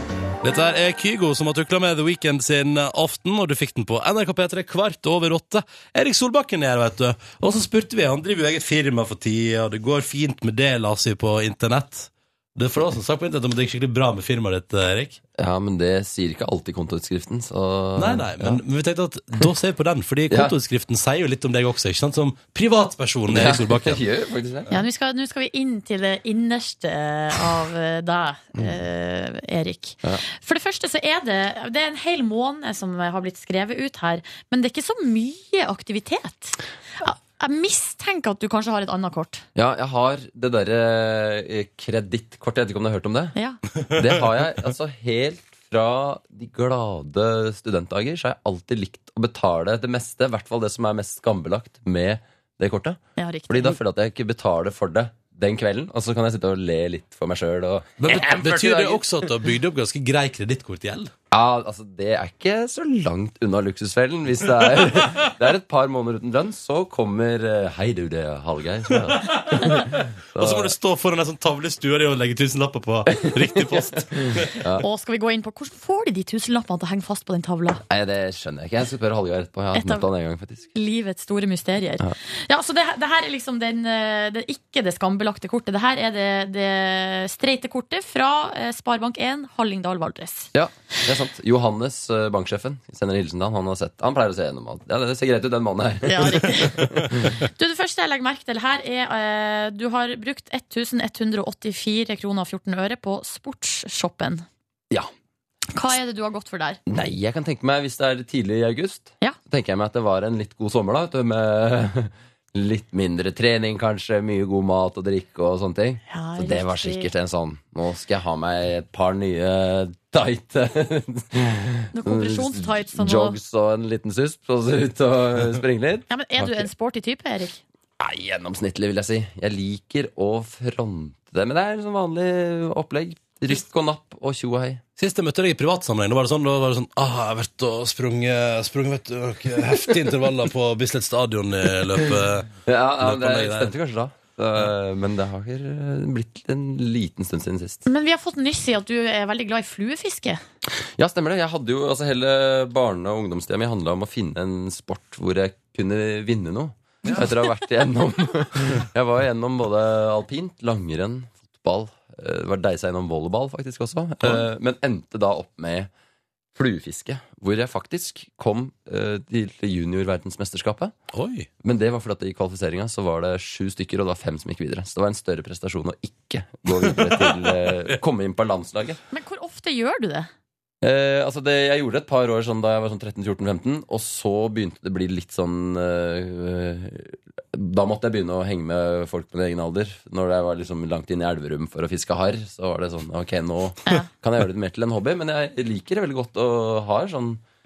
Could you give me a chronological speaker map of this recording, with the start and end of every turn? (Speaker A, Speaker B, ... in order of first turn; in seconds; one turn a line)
Speaker A: 0.4-15.2
Speaker B: 15.4-18.6
Speaker A: 17.9-24.0
Speaker B: 20.3-20.5
Speaker B: 23.3-24.7
Speaker C: 24.7-39.4
Speaker B: 39.5-43.3
Speaker C: 43.3-43.6
Speaker B: 43.9-59.1
Speaker C: 53.2-53.8
Speaker A: 58.0-61.1
Speaker B: 61.3-70.7
Speaker A: 64.6-65.2
Speaker A: 68.9-74.5
Speaker B: 73.1-74.8
Speaker C: 74.8-77.8
Speaker B: 77.9-80.7
Speaker C: 79.7-80.0
Speaker C: 80.7-90.5
Speaker B: 90.5-97.4
Speaker C: 96.0-104.4
Speaker C: 105.7-106.8
Speaker B: 106.9-126.7
Speaker C: 116.1-117.1
Speaker C: 121.9-123.3
Speaker C: 126.1-127.6
Speaker B: 128.0-134.8
Speaker A: 135.0-143.7
Speaker B: 142.7-147.8
Speaker C: 147.8-150.4
Speaker B: 151.0-165.9
Speaker B: 166.5-170.9
Speaker A: 171.1-171.5
Speaker B: 171.6-179.0
Speaker A: 176.8-178.0
Speaker C: 179.1-180.3
Speaker B: 180.8-197.4